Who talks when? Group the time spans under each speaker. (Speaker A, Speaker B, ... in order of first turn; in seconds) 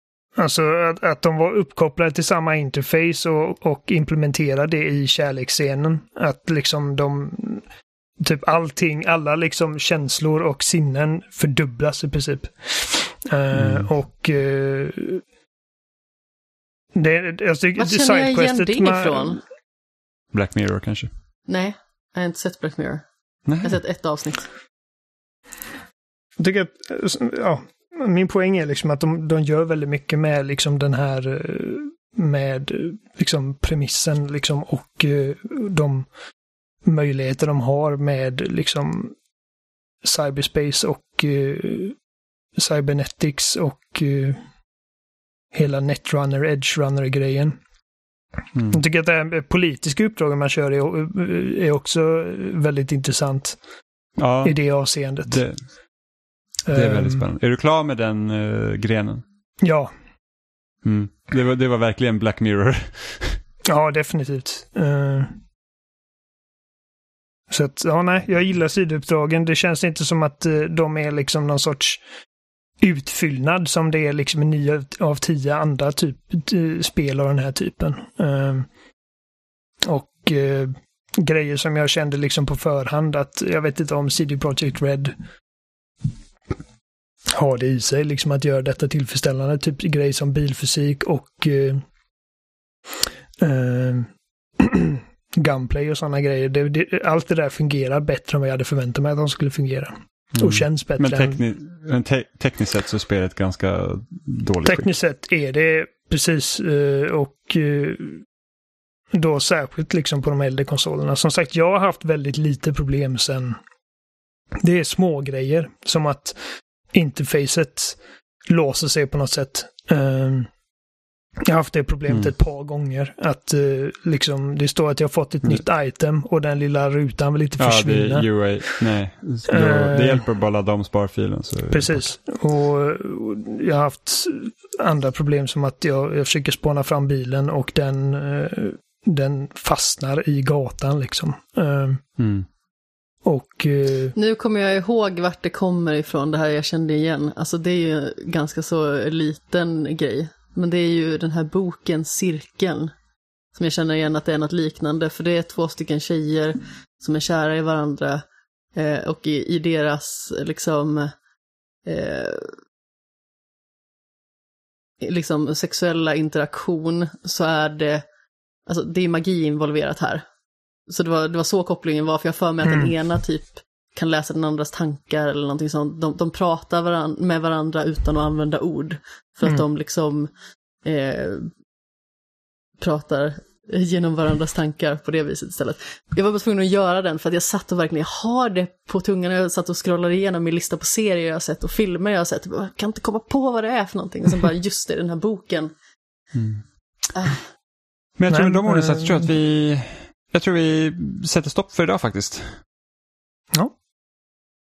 Speaker A: 0.3-7.6, 8.2-15.2, 16.9-19.4, 26.4-36.1, 36.8-39.1, 40.0-41.9, 42.6-44.4, 45.5-47.6, 48.7-53.6, 54.4-55.4, 56.7-57.2, 59.6-59.9, 63.7-65.3, 67.5-72.0, 72.8-78.7, 79.8-85.1, 87.3-91.8, 93.4-101.4, 104.6-108.2, 109.1-113.6, 114.6-116.4, 116.9-120.5, 121.5-128.2, 129.5-130.2, 131.7-142.0, 143.2-144.1, 172.6-172.9, 198.3-199.3
Speaker B: 13.5-13.9, 20.3-21.1, 23.5-23.8, 48.5-48.8, 54.2-54.5, 55.3-55.6, 56.7-59.2, 60.8-63.4, 100.3-104.9, 122.1-122.3, 127.6-132.0, 142.2-142.5, 196.3-196.6, 198.2-202.6
Speaker C: 17.8-19.4, 21.5-23.0, 23.6-24.5, 144.1-152.9, 153.5-161.1, 161.8-162.5, 165.0-168.1, 168.7-170.2, 170.9-180.3, 180.8-181.5, 182.8-195.7